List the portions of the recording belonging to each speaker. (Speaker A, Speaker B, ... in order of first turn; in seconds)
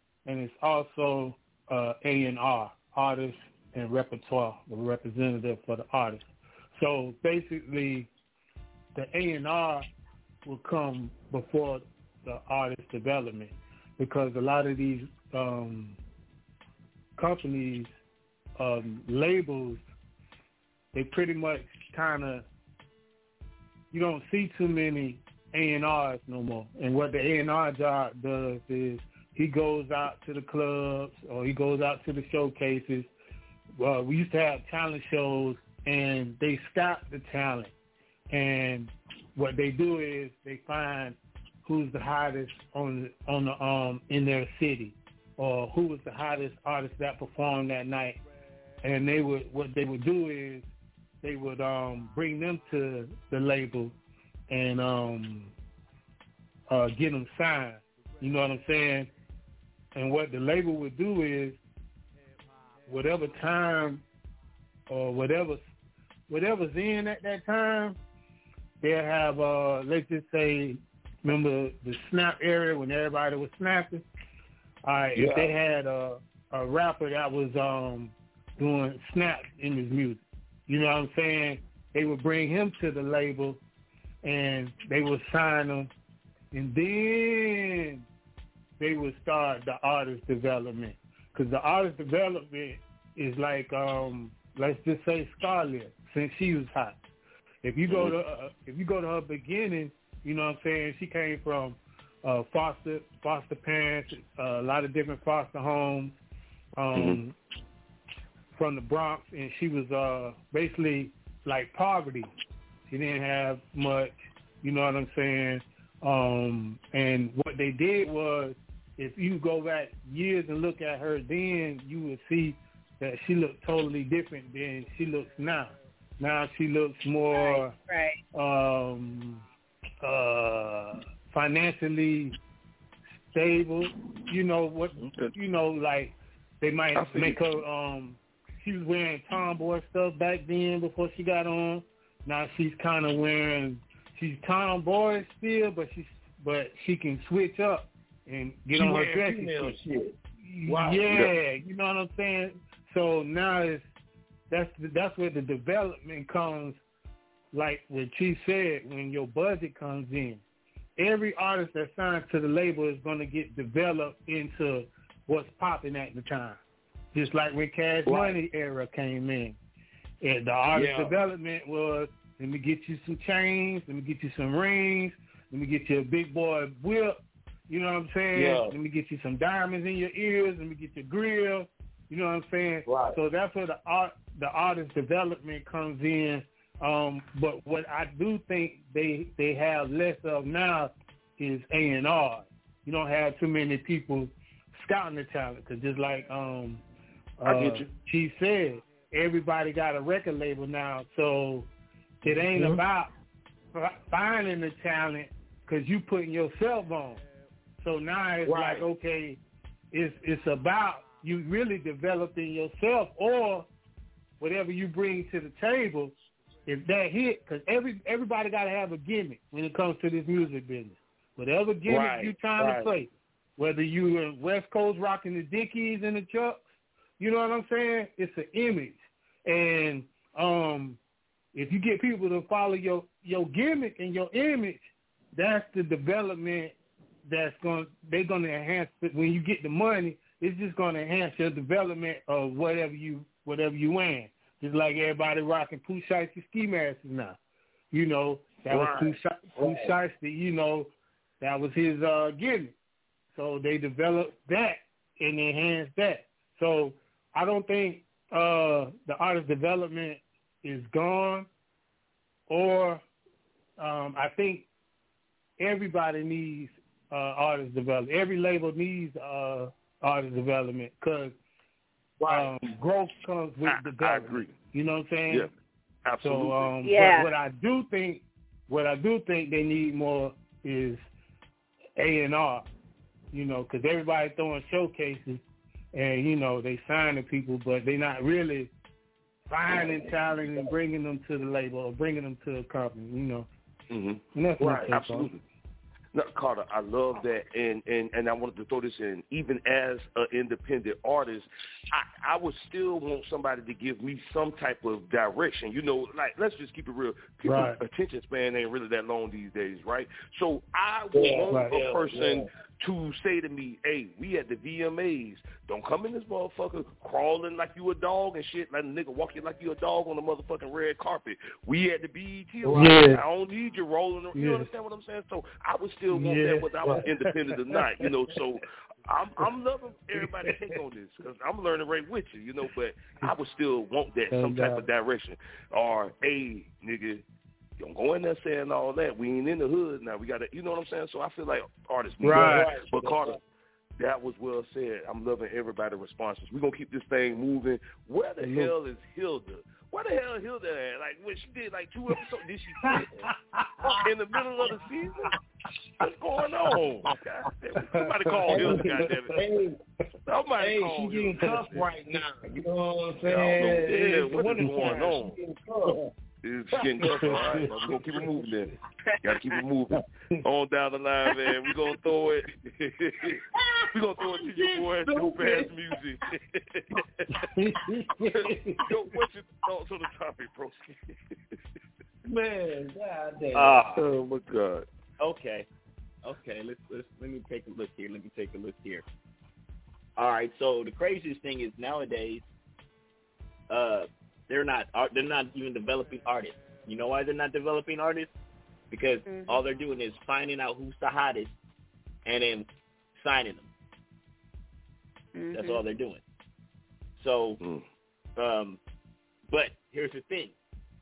Speaker A: 0.2-6.2, 6.7-8.1, 8.9-9.9, 10.4-16.0, 17.2-17.9, 18.6-19.8, 20.9-22.4, 23.9-33.1, 33.8-37.7, 38.3-48.2, 48.8-50.6, 51.2-53.9, 54.5-55.5, 56.7-59.1, 59.9-61.6, 62.9-64.0, 64.9-65.6, 66.3-68.0, 68.8-74.0, 74.8-83.6, 84.2-85.9, 86.5-88.0, 88.8-97.0, 97.6-106.2, 106.8-107.3, 108.5-112.3, 112.9-127.7, 128.3-129.4, 130.0-132.3, 133.3-149.8, 150.4-153.8, 154.5-156.8, 157.5-160.4, 161.0-166.6, 167.1-169.6, 170.2-196.8, 197.4-201.7, 202.2-203.1, 203.7-207.2, 207.8-209.4, 209.9-213.7, 214.4-216.1, 216.7-226.6, 227.2-231.0, 231.5-234.8, 235.3-236.7, 237.2-247.4, 247.9-250.9, 251.4-252.7, 253.3-261.5, 262.5-263.0, 263.8-264.7, 265.6-271.3, 272.2-275.5, 276.2-281.0, 282.0-282.7, 283.3-285.4, 285.9-288.7, 289.5-293.5, 294.3-295.3, 307.4-307.8, 322.7-323.2, 324.3-324.7, 326.1-327.2, 334.3-334.9, 342.2-342.7, 348.4-348.7, 353.6-354.0, 358.3-358.8, 377.6-378.5
Speaker B: 75.2-75.5, 148.7-151.3, 168.1-168.4, 170.7-171.2, 178.3-178.7, 182.8-183.2, 208.4-208.9, 221.9-222.9, 248.7-249.9, 272.2-272.5, 311.1-312.5, 322.6-323.0, 342.2-343.4, 358.5-359.8, 360.6-366.1, 367.0-368.3, 373.5-375.7, 382.3-384.0
Speaker C: 97.9-98.2, 106.9-107.2, 135.0-135.3, 136.9-137.4, 197.4-197.9, 273.6-274.6, 276.0-276.7, 293.9-295.4, 296.1-337.2, 337.8-343.4, 344.0-353.2, 354.0-355.2, 356.0-359.4, 360.2-361.9, 363.2-365.4, 366.4-373.4, 373.9-377.4, 378.3-381.6, 383.9-384.9, 407.6-407.8
Speaker D: 127.3-128.2, 276.8-277.3, 399.2-399.6, 405.3-405.8
Speaker E: 383.5-383.9, 385.2-385.7, 386.2-389.0, 390.2-392.4, 393.7-398.3, 398.9-401.5, 402.2-403.7, 405.5-406.2, 407.2-407.6, 408.4-408.8, 409.5-410.6